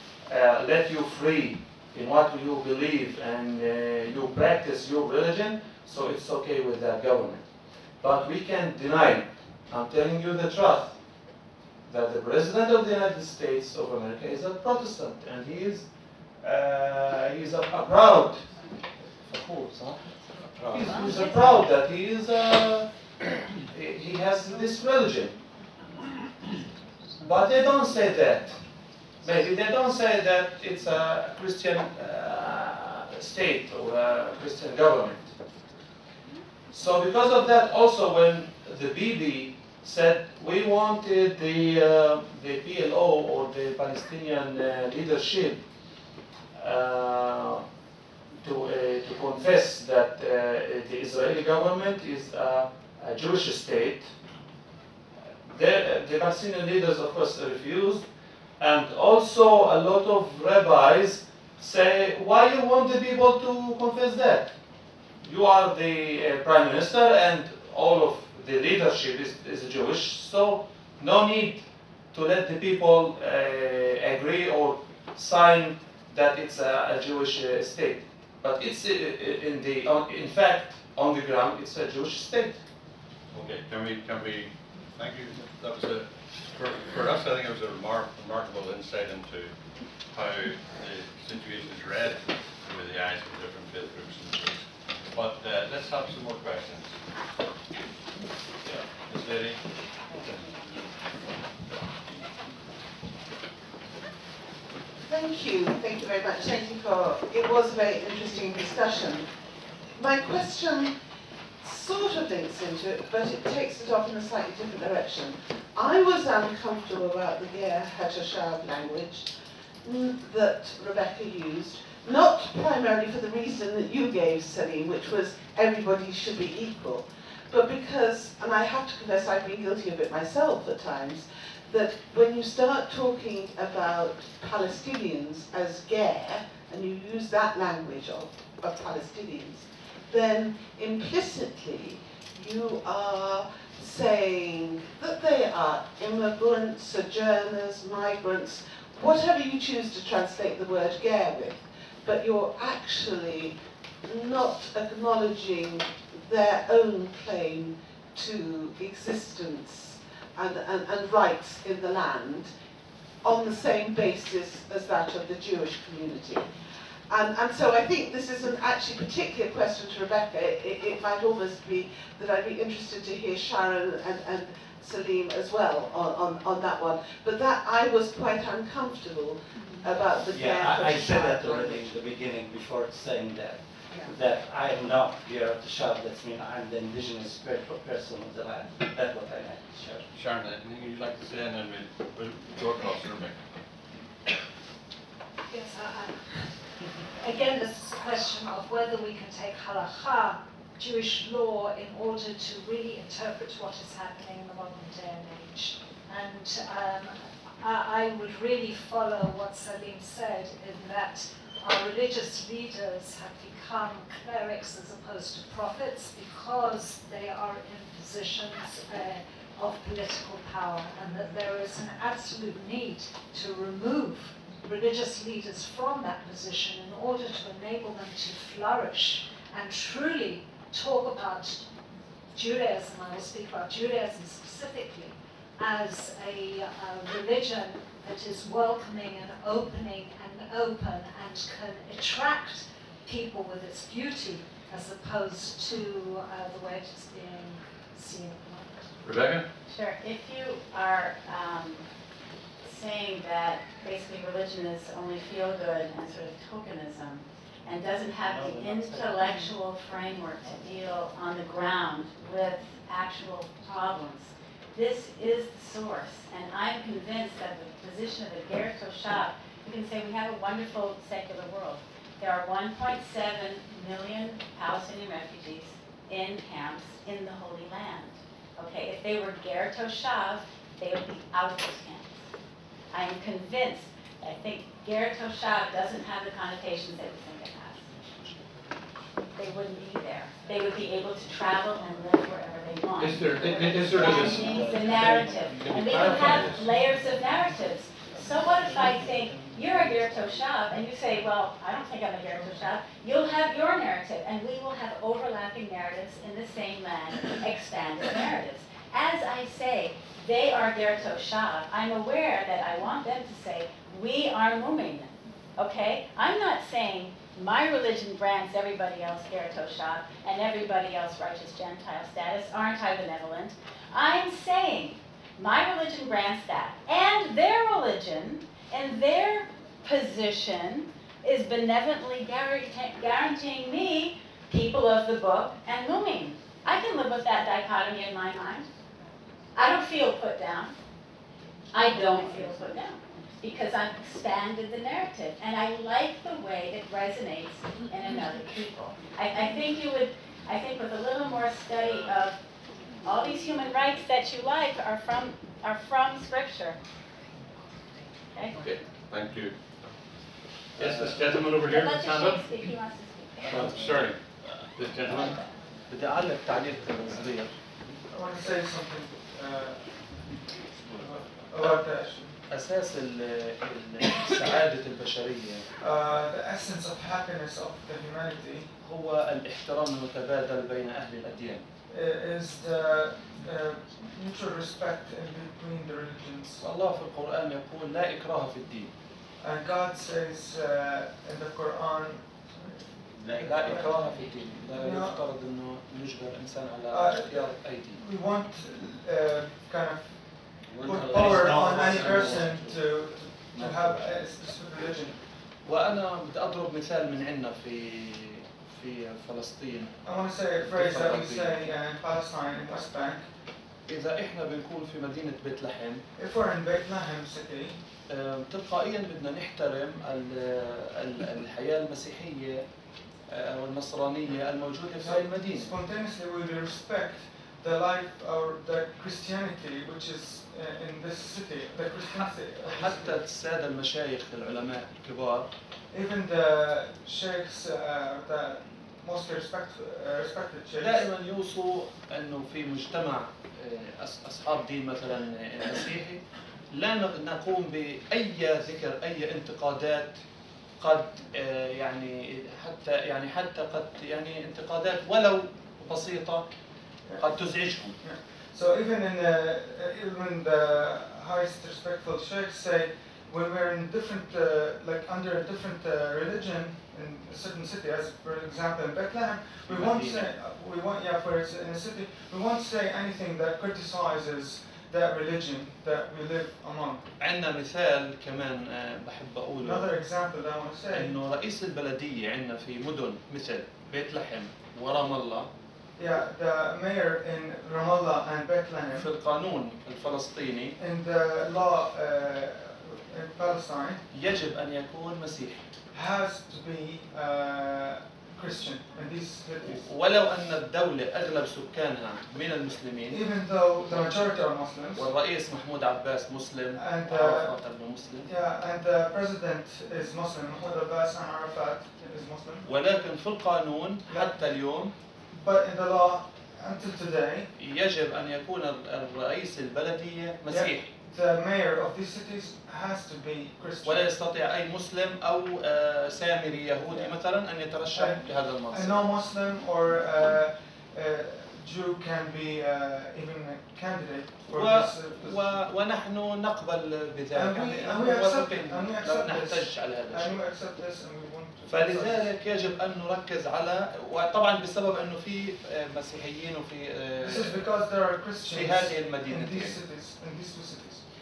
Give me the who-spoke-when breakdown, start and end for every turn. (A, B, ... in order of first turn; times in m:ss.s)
0:00.3-0:11.0 A
0:11.9-0:18.7 A
0:19.2-0:23.1 A
0:20.6-0:21.1 B
0:20.8-0:21.6 C
0:23.6-0:25.4 A
0:27.2-0:35.4 A
0:36.7-0:45.7 A
0:46.6-0:47.6 A
0:48.4-0:54.1 A
0:55.5-0:58.1 A
0:58.6-1:04.5 A
1:05.2-1:22.6 A
1:23.3-1:37.0 B
1:38.6-1:40.7 B
1:45.0-1:49.3 D
1:49.9-1:51.0 D
1:51.6-2:42.5 D
2:43.2-3:01.9 D
2:59.6-2:59.9 C
3:00.3-3:10.1 E
3:10.1-3:13.4 B
3:15.5-3:51.6 F
3:52.3-4:09.0 F
4:09.0-4:09.4 B
4:09.7-4:11.9 C
4:12.6-4:42.2 C
4:18.2-4:19.2 E
4:42.9-4:47.9 C
4:49.4-5:38.7 C
4:53.0-4:56.7 B
5:39.6-5:40.8 C
5:41.7-5:52.4 C
5:51.8-5:52.2 B
5:53.0-5:56.8 C
5:58.6-6:00.2 B
6:00.7-6:02.8 B
6:00.8-6:01.1 A
6:01.7-6:03.7 C
6:03.5-6:05.5 B
6:03.5-6:07.6 A
6:08.1-6:12.4 G
6:12.5-6:15.7 A
6:15.8-6:18.7 G
6:18.8-6:21.6 A
6:21.9-6:26.6 G
6:26.6-6:28.9 A
6:29.4-6:34.1 G
6:33.4-6:38.0 A
6:34.7-6:35.3 G
6:36.9-6:45.2 G
6:41.1-6:42.4 A
6:45.6-6:51.7 A
6:50.0-6:53.2 G
6:53.9-6:56.0 A
6:56.2-6:57.8 G
6:58.1-7:02.6 A
7:03.3-7:05.7 A
7:05.0-7:13.2 G
7:12.6-7:15.5 A
7:15.9-7:21.1 G
7:20.8-7:30.2 A
7:30.8-7:36.4 A
7:37.1-7:57.0 G
7:37.2-7:38.0 A
7:49.7-7:50.3 A
7:57.2-7:59.9 A
7:59.6-8:01.2 G
8:00.9-8:05.5 A
8:06.0-8:09.1 G
8:08.9-8:10.8 A
8:10.8-8:14.0 G
8:14.1-8:15.7 A
8:15.9-8:19.9 G
8:19.7-8:23.2 A
8:23.1-8:25.1 G
8:23.9-8:24.4 A
8:24.9-8:28.3 A
8:26.7-8:32.7 G
8:32.6-8:35.0 A
8:34.1-8:37.5 G
8:37.6-8:40.9 A
8:40.5-8:44.2 G
8:43.8-8:49.1 A
8:46.9-8:55.5 G
8:54.5-9:00.4 A
8:57.3-9:02.3 G
9:01.7-9:07.7 A
9:07.2-9:11.0 G
9:08.4-9:09.8 A